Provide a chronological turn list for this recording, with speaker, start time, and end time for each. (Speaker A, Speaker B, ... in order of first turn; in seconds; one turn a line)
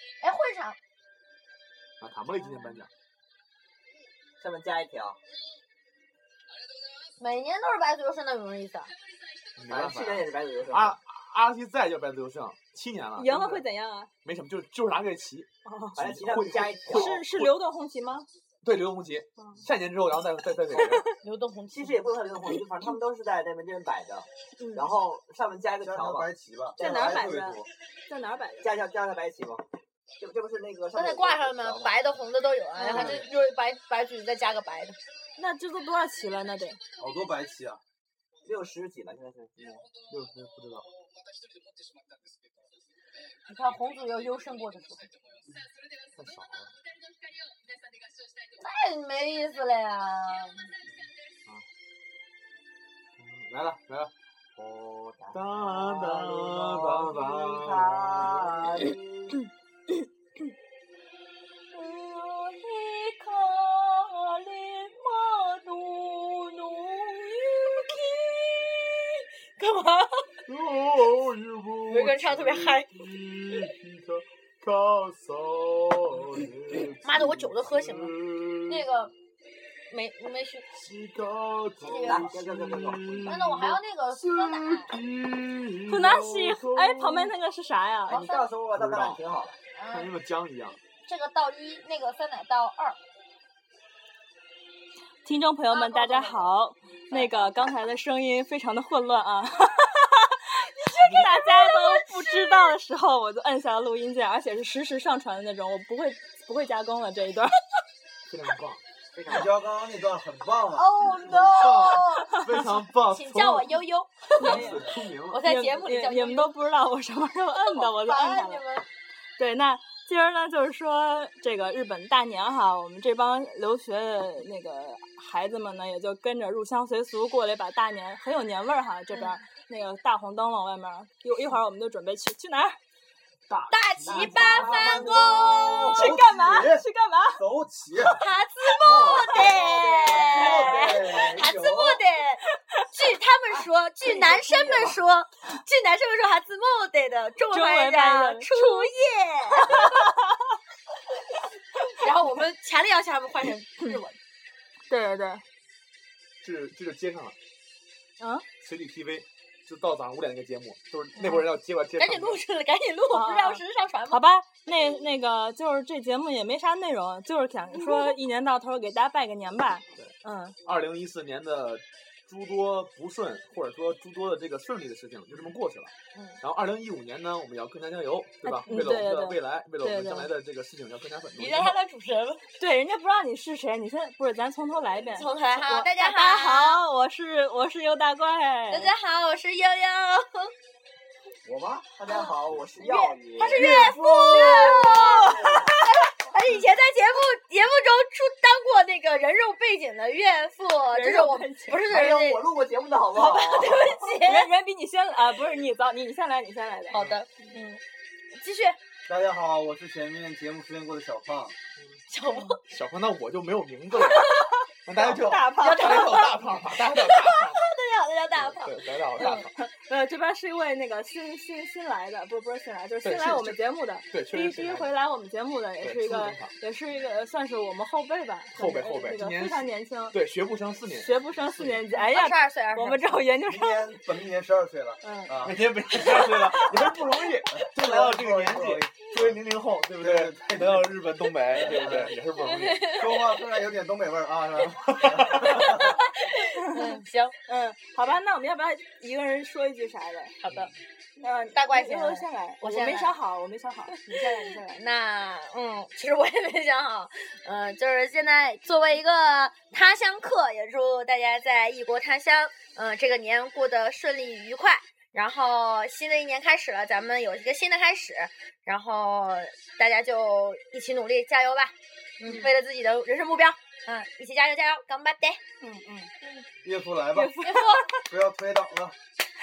Speaker A: 0.2-0.8
Speaker B: 2.0-2.9
Speaker C: 4.4-5.2
Speaker A: 7.2-8.9
Speaker B: 9.6-13.6
Speaker C: 9.7-11.0
Speaker D: 13.2-14.1
Speaker B: 14.2-17.5
Speaker D: 15.6-16.0
Speaker C: 15.9-17.2
Speaker D: 16.9-18.3
Speaker B: 18.6-21.0
Speaker A: 21.2-22.1
Speaker C: 21.7-27.6
Speaker D: 24.6-24.9
Speaker E: 25.8-27.6
Speaker D: 26.8-28.7
Speaker C: 28.6-29.6
Speaker C: 30.2-32.1
Speaker A: 30.9-35.0
Speaker D: 32.8-33.1
Speaker D: 35.4-36.8
Speaker E: 37.0-37.8
Speaker C: 38.4-39.8
Speaker B: 40.1-40.9
Speaker A: 43.5-45.1
Speaker B: 46.1-46.7
Speaker A: 48.6-50.7
Speaker B: 53.2-54.1
Speaker C: 54.5-59.3
Speaker B: 55.3-58.5
Speaker A: 61.7-70.3
Speaker B: 70.5-78.8
Speaker A: 71.9-72.9
Speaker A: 77.0-79.1
Speaker A: 79.9-80.6
Speaker B: 80.8-87.3
Speaker A: 81.8-82.3
Speaker C: 81.8-83.4
Speaker A: 83.2-84.9
Speaker D: 85.8-88.2
Speaker C: 88.0-89.6
Speaker A: 88.1-88.4
Speaker B: 88.7-89.2
Speaker A: 89.7-90.1
Speaker B: 89.9-90.8
Speaker A: 91.0-93.0
Speaker D: 95.2-107.5
Speaker A: 95.7-96.5
Speaker A: 97.1-97.5
Speaker A: 101.3-102.7
Speaker B: 108.3-108.8
Speaker C: 109.2-109.5
Speaker E: 109.3-110.9
Speaker A: 110.8-112.3
Speaker B: 111.1-113.8
Speaker A: 113.1-116.5
Speaker B: 114.3-115.4
Speaker D: 114.4-114.8
Speaker D: 115.4-118.6
Speaker A: 117.5-118.9
Speaker D: 119.4-132.8
Speaker A: 129.1-129.4
Speaker B: 133.5-135.1
Speaker A: 133.7-135.9
Speaker C: 134.0-136.0
Speaker D: 135.8-137.4
Speaker E: 135.9-136.8
Speaker E: 137.4-138.2
Speaker A: 138.2-142.4
Speaker C: 138.8-142.0
Speaker B: 138.8-140.2
Speaker D: 139.3-140.9
Speaker E: 140.3-141.4
Speaker A: 142.9-150.1
Speaker C: 144.0-145.0
Speaker D: 147.5-148.9
Speaker D: 149.7-150.2
Speaker A: 151.9-154.2
Speaker D: 154.9-155.4
Speaker B: 156.4-157.3
Speaker D: 158.2-158.4
Speaker B: 158.6-162.4
Speaker A: 161.2-164.9
Speaker D: 163.1-170.6
Speaker A: 167.7-168.2
Speaker B: 170.6-175.9
Speaker A: 176.1-176.4
Speaker B: 176.4-181.8
Speaker D: 178.4-180.3
Speaker A: 181.3-182.5
Speaker D: 182.6-188.9
Speaker A: 185.1-186.8
Speaker A: 188.7-190.5
Speaker C: 191.4-195.6
Speaker A: 192.1-202.4
Speaker B: 193.6-194.7
Speaker D: 194.3-195.7
Speaker D: 200.9-201.8
Speaker C: 201.8-203.9
Speaker A: 203.1-204.5
Speaker D: 204.2-207.6
Speaker A: 206.9-207.8
Speaker B: 206.9-207.2
Speaker A: 208.3-208.8
Speaker E: 209.1-211.5
Speaker A: 212.1-212.6
Speaker B: 212.6-214.3
Speaker A: 213.9-219.4
Speaker B: 214.8-217.7
Speaker D: 215.0-216.1
Speaker B: 218.3-219.5
Speaker D: 219.2-230.2
Speaker B: 223.0-223.6
Speaker B: 224.1-224.9
Speaker B: 225.8-226.5
Speaker B: 228.5-231.9
Speaker D: 230.9-233.9
Speaker A: 232.1-233.2
Speaker E: 233.5-235.6
Speaker D: 235.0-235.3
Speaker B: 235.4-243.0
Speaker D: 236.0-236.5
Speaker E: 237.5-239.4
Speaker E: 240.0-240.9
Speaker E: 241.6-242.1
Speaker A: 242.4-243.1
Speaker E: 242.9-246.0
Speaker B: 244.6-245.7
Speaker A: 245.4-247.3
Speaker D: 246.8-250.3
Speaker A: 250.4-250.7
Speaker D: 251.2-254.8
Speaker A: 251.5-253.1
Speaker A: 254.0-275.4
Speaker D: 275.6-276.1
Speaker E: 276.6-277.3
Speaker D: 277.1-277.9
Speaker A: 277.4-277.9
Speaker E: 278.1-278.9